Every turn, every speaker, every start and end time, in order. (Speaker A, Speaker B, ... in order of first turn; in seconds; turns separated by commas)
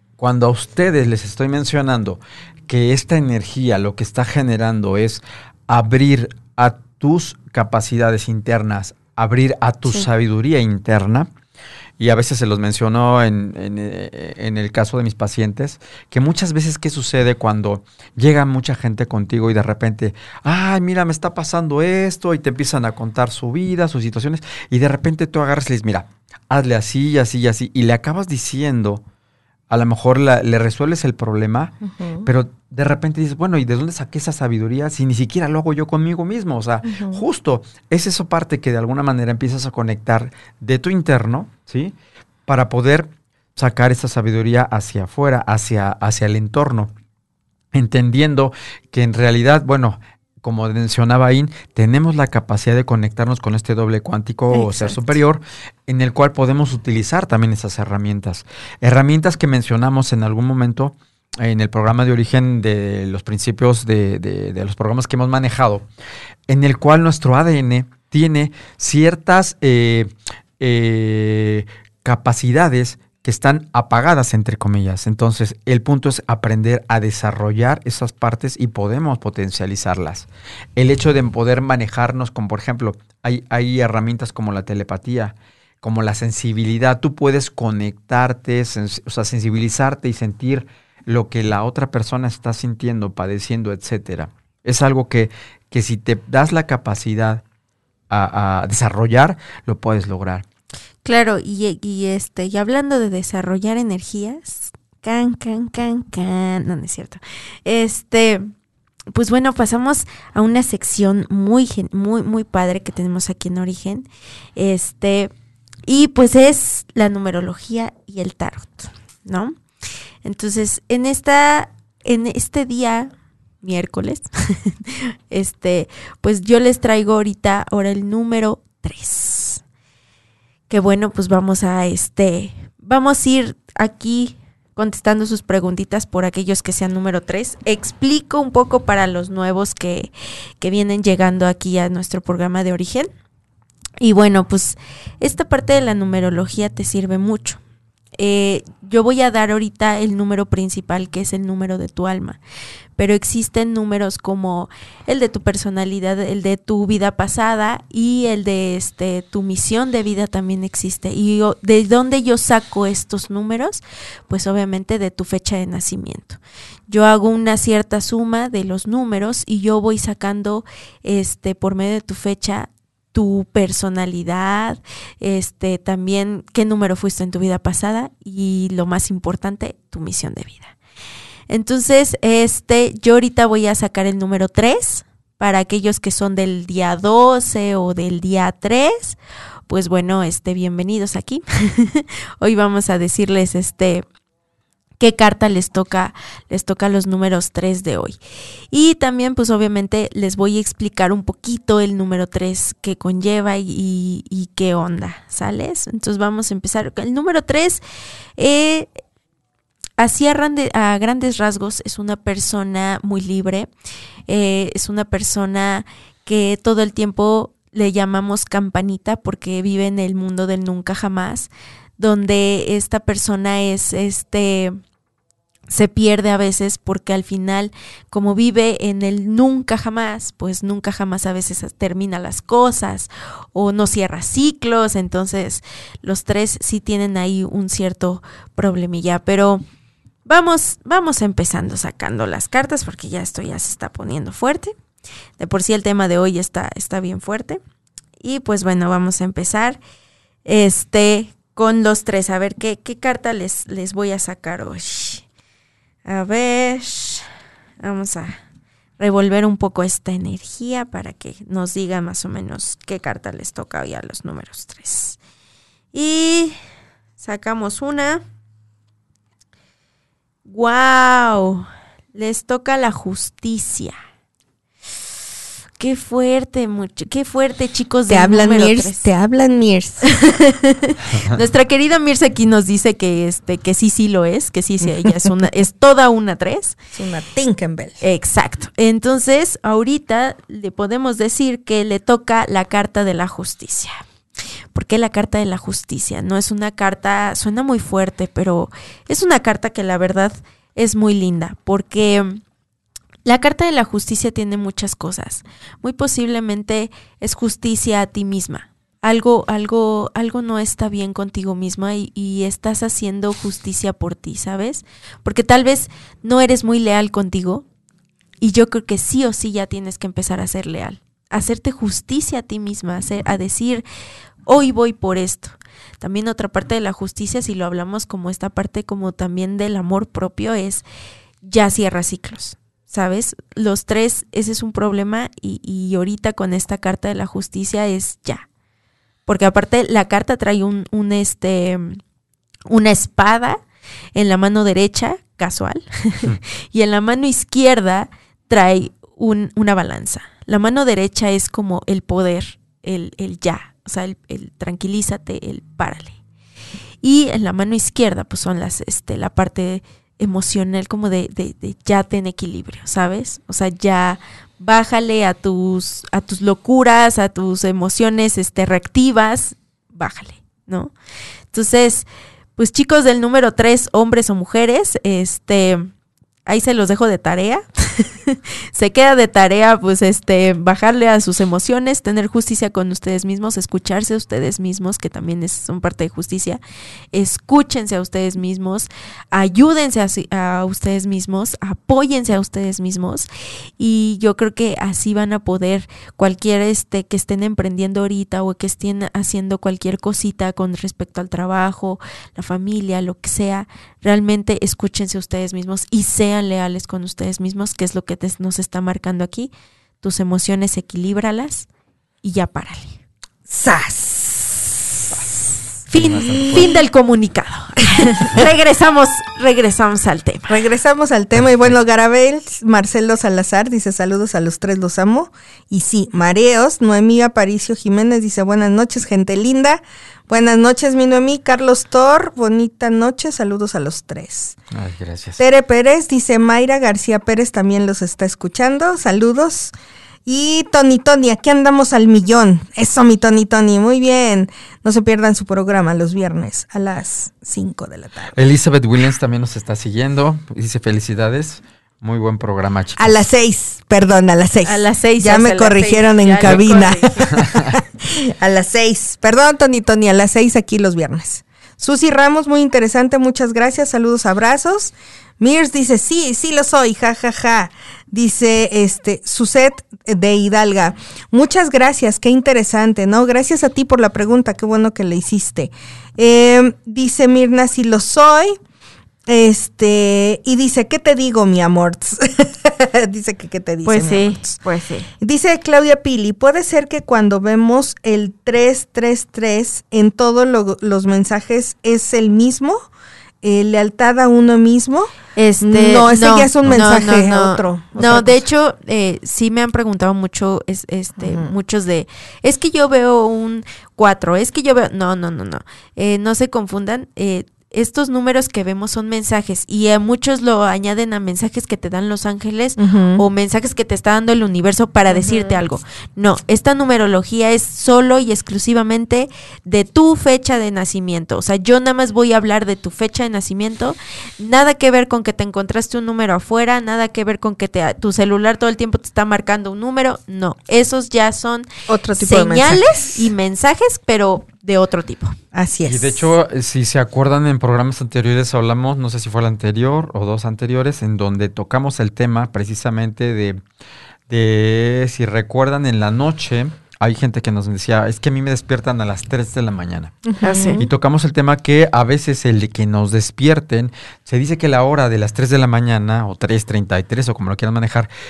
Speaker A: 0.2-11.3, Speaker A: 12.0-29.0, Speaker A: 29.7-31.7, Speaker B: 31.9-32.3, Speaker A: 32.2-41.9, Speaker B: 36.9-37.2, Speaker A: 42.5-46.9, Speaker A: 47.7-65.9, Speaker C: 54.5-55.1, Speaker A: 66.5-70.1, Speaker A: 70.6-97.4, Speaker A: 98.1-100.4, Speaker C: 101.0-108.5, Speaker C: 109.1-115.3, Speaker C: 115.8-119.6, Speaker C: 120.2-129.6, Speaker C: 130.7-143.1, Speaker C: 144.0-147.6, Speaker C: 148.2-152.4, Speaker C: 153.0-180.7, Speaker C: 181.5-189.2, Speaker C: 189.7-194.0, Speaker C: 195.0-198.2, Speaker C: 198.7-207.8, Speaker C: 208.4-208.9, Speaker C: 210.0-213.7, Speaker C: 214.3-224.8, Speaker C: 225.7-239.6, Speaker C: 240.2-244.7, Speaker C: 245.4-247.6, Speaker C: 248.2-249.8, Speaker C: 250.4-255.2, Speaker C: 256.1-257.2, Speaker C: 257.8-258.4, Speaker C: 259.0-265.2, Speaker C: 265.9-266.6, Speaker C: 267.2-268.2, Speaker C: 270.4-273.9, Speaker C: 275.8-279.1, Speaker B: 278.1-280.1, Speaker C: 280.0-286.8, Speaker B: 286.9-288.0, Speaker C: 288.0-294.0, Speaker C: 294.7-302.4, Speaker C: 303.2-317.6, Speaker C: 318.4-323.8, Speaker C: 324.5-330.8, Speaker C: 331.4-338.4, Speaker C: 339.3-342.0, Speaker C: 342.7-343.6, Speaker C: 344.1-356.2, Speaker C: 357.0-370.9, Speaker C: 371.5-372.1, Speaker C: 372.6-375.9, Speaker C: 376.4-386.6, Speaker C: 387.1-393.3, Speaker C: 393.8-411.7, Speaker C: 412.2-413.0, Speaker B: 413.5-415.1, Speaker C: 415.9-420.6, Speaker A: 415.9-416.7, Speaker B: 416.3-416.7, Speaker B: 420.5-434.6, Speaker A: 421.3-421.8, Speaker A: 434.7-435.4, Speaker B: 435.4-439.7, Speaker B: 440.2-448.3, Speaker A: 448.3-453.2, Speaker B: 453.0-478.6, Speaker C: 454.6-457.5, Speaker A: 457.3-457.7, Speaker B: 479.3-484.6, Speaker C: 483.8-485.1, Speaker B: 485.2-492.8, Speaker B: 493.4-498.4, Speaker C: 495.4-535.4, Speaker B: 501.2-501.5, Speaker B: 512.8-513.2, Speaker B: 515.1-515.6, Speaker B: 531.9-533.3, Speaker B: 535.5-536.2, Speaker A: 535.8-543.6, Speaker A: 544.3-550.2, Speaker B: 550.2-550.8, Speaker C: 550.4-550.9, Speaker A: 550.8-558.1